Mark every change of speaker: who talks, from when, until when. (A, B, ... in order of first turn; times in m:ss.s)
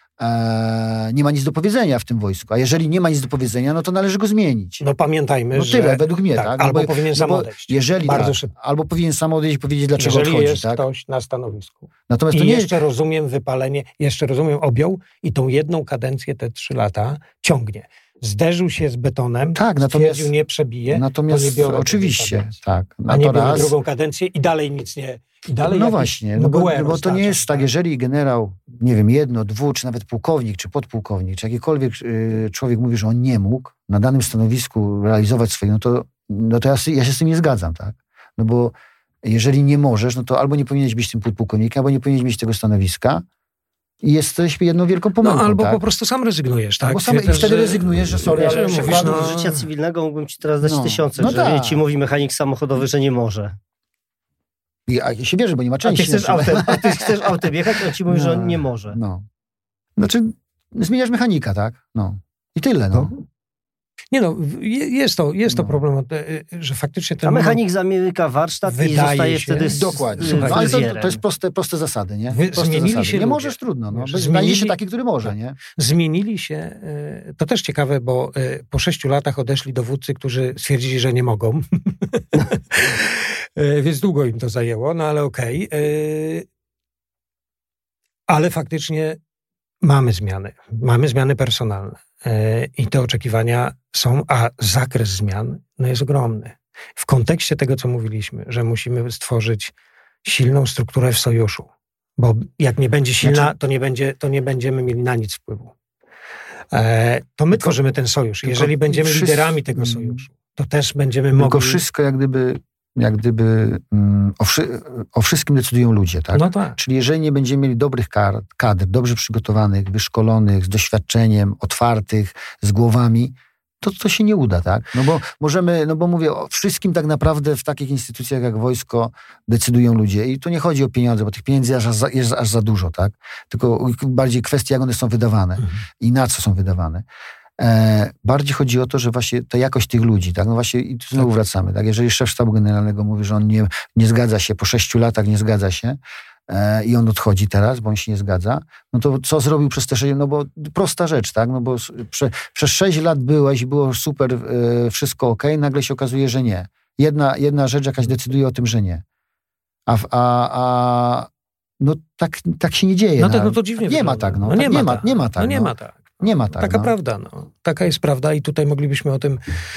0:00.2-0:04.8 A
0:04.8-0:08.5 B
0:05.5-0:10.8 A
0:10.0-0:22.5 B
0:12.1-0:12.7 A
0:19.5-0:20.3 A
0:20.9-0:23.8 A
0:23.1-0:27.7 B
0:25.6-0:43.2 A
0:44.0-0:45.8 A
0:45.2-0:49.6 B
0:46.8-0:49.3 A
0:48.3-0:53.6 C
0:50.6-0:51.8 A
0:54.9-0:57.5 A
0:55.8-0:59.0 C
0:58.0-0:59.2 A
1:00.0-1:03.2 A
1:04.1-1:07.6 B
1:05.5-1:05.8 A
1:07.2-1:11.2 C
1:08.6-1:10.8 B
1:09.7-1:15.6 A
1:12.3-1:14.8 B
1:15.7-1:26.4 B
1:28.3-1:29.2 B
1:29.8-1:39.7 B
1:40.2-1:45.7 B
1:43.2-1:43.5 A
1:46.7-1:51.8 B
1:48.4-1:50.2 A
1:51.3-2:17.0 A
1:56.3-1:56.8 B
2:17.6-2:39.0 A
2:39.9-2:46.9 A
2:43.2-2:49.4 B